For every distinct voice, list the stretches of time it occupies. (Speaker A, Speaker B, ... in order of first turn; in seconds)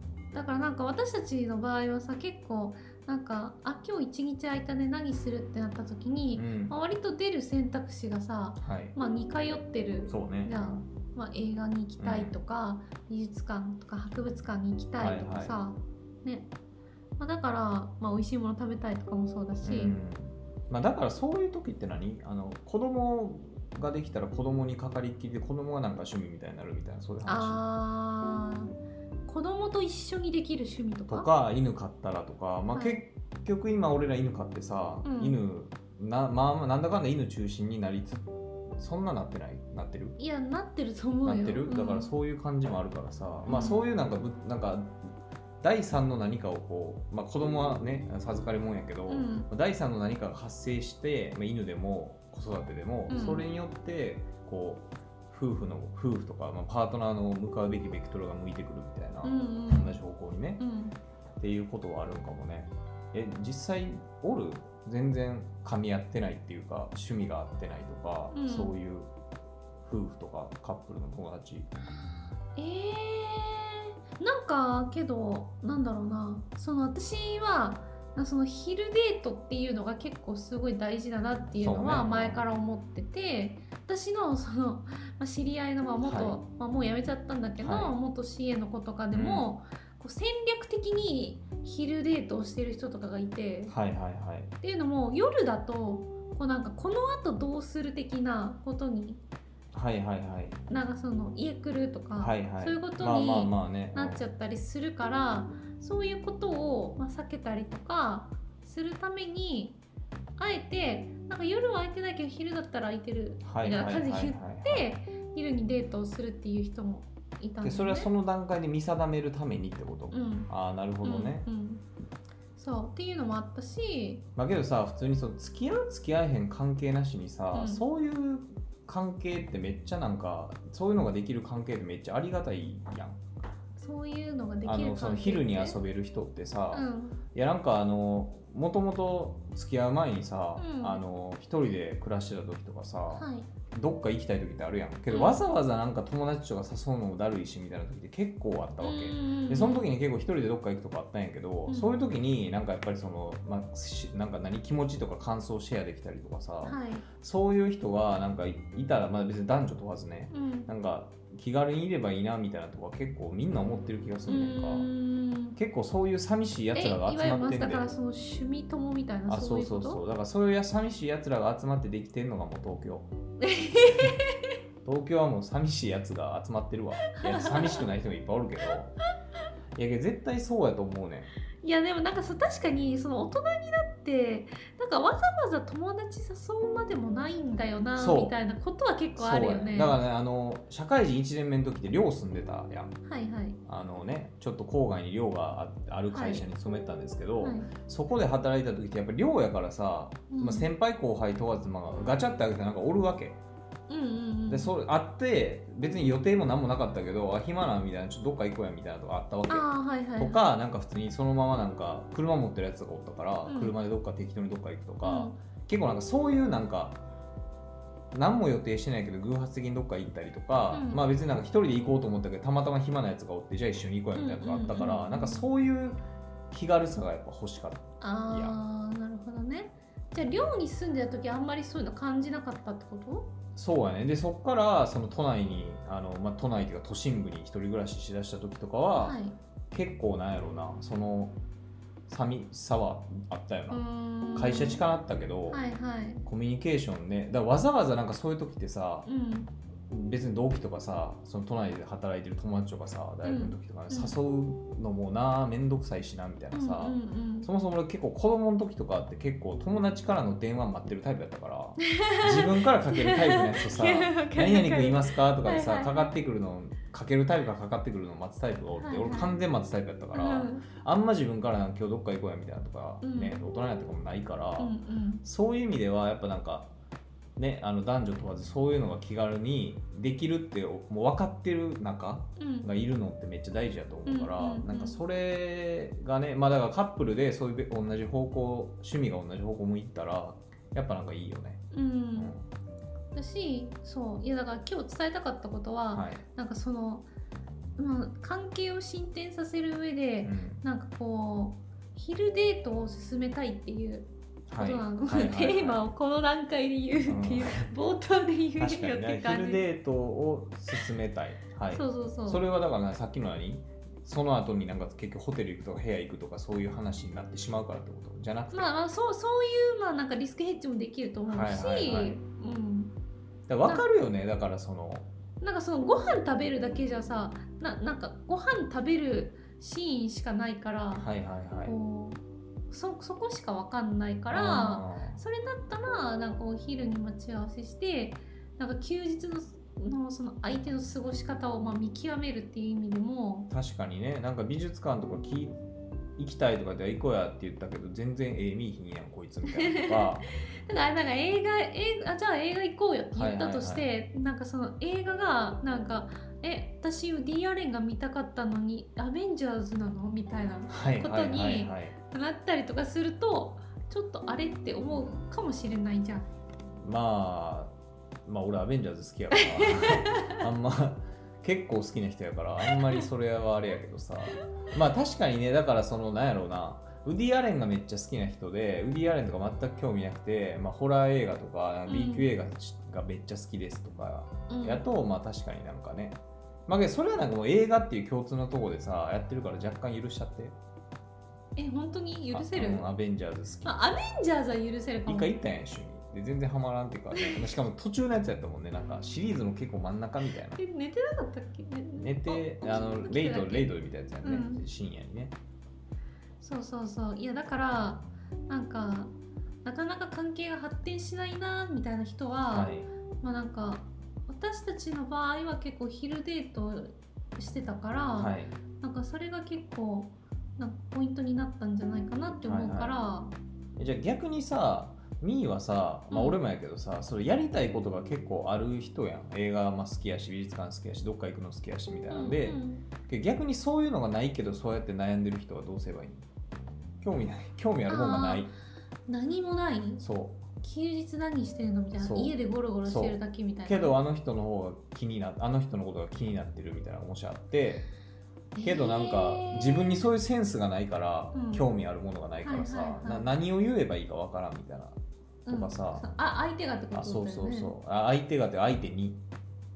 Speaker A: 0.3-16.5, 17.2-19.9, 27.2-28.7, 29.3-31.3, 32.7-33.0, 35.0-35.4, 40.2-42.1, 43.5-43.8, 49.1-49.5, 53.1-53.4, 59.2-60.0, 60.6-61.0, 68.3-68.7, 72.5-93.7, 94.6-99.2, 100.7-109.8, 110.4-118.1, 120.1-120.5, 121.0-121.8, 122.5-124.2, 127.5-127.8, 133.8-135.8, 136.7-137.2, 140.6-141.0, 143.1-143.5, 145.1-145.4, 148.8-149.9, 151.7-151.9, 156.6-157.1, 160.3-160.7, 164.3-165.6, 166.7-170.0, 173.4-174.5, 177.1-177.8, 181.6-190.0, 193.1-193.6, 196.1-196.5, 197.4-197.7, 200.3-200.7, 203.9-204.7, 209.5-210.4, 213.5-213.7, 215.0-215.4, 220.7-221.0, 224.1-225.5, 228.0-233.3, 239.0-239.4, 243.7-244.8, 245.5-246.2, 249.1-249.5, 253.2-254.2, 256.5-257.5, 261.8-266.1, 268.8-269.4, 270.1-270.6, 273.0-273.4, 274.6-275.2, 282.4-282.7, 284.1-285.0, 291.7-292.3, 293.1-297.1, 297.8-309.6, 311.7-312.4, 318.5-322.9, 325.4-331.1, 331.6-343.5, 349.5-350.1, 350.6-366.3, 369.3-370.4, 381.9-382.3, 384.5-384.8, 391.6-392.9, 393.6-395.3, 397.1-397.4, 400.6-404.6, 406.4-409.1, 409.6-423.3, 426.1-426.4, 432.1-432.9, 437.9-438.5, 439.1-440.0, 440.6-443.9, 448.5-450.1, 451.3-451.6, 452.4-453.3, 455.4-457.7
Speaker B: 6.3-6.7, 8.6-8.9, 10.1-10.9, 12.0-12.3, 15.0-15.6, 19.6-27.6, 31.1-40.2, 41.2-45.0, 45.6-60.6, 61.4-69.1, 69.8-71.7, 81.6-82.4, 86.0-86.4, 87.6-88.0, 89.1-89.5, 93.7-94.5, 99.7-100.6, 102.2-104.3, 113.4-114.9, 117.6-121.5, 124.3-133.2, 134.6-164.9, 165.6-167.9, 169.3-173.1, 173.7-174.1, 174.8-179.0, 179.7-181.3, 187.9-188.3, 189.2-192.9, 193.6-203.4, 204.5-217.0, 218.1-228.6, 233.6-239.2, 239.7-241.4, 242.1-245.6, 246.2-249.1, 249.9-276.7, 277.4-291.6, 292.1-292.4, 295.9-296.2, 300.2-300.6, 304.5-305.8, 307.1-307.7, 308.6-318.7, 321.3-322.2, 323.5-325.1, 330.9-331.7, 334.3-335.2, 343.5-345.6, 346.2-350.2, 353.1-353.9, 360.7-361.9, 366.8-367.7, 368.2-390.6, 392.3-393.8, 395.1-400.6, 401.9-405.3, 412.5-412.9, 418.2-418.5, 422.4-423.0, 423.8-436.2, 437.0-438.5, 440.0-440.4, 442.0-447.9, 448.6-455.0, 455.5-456.0, 456.9-459.2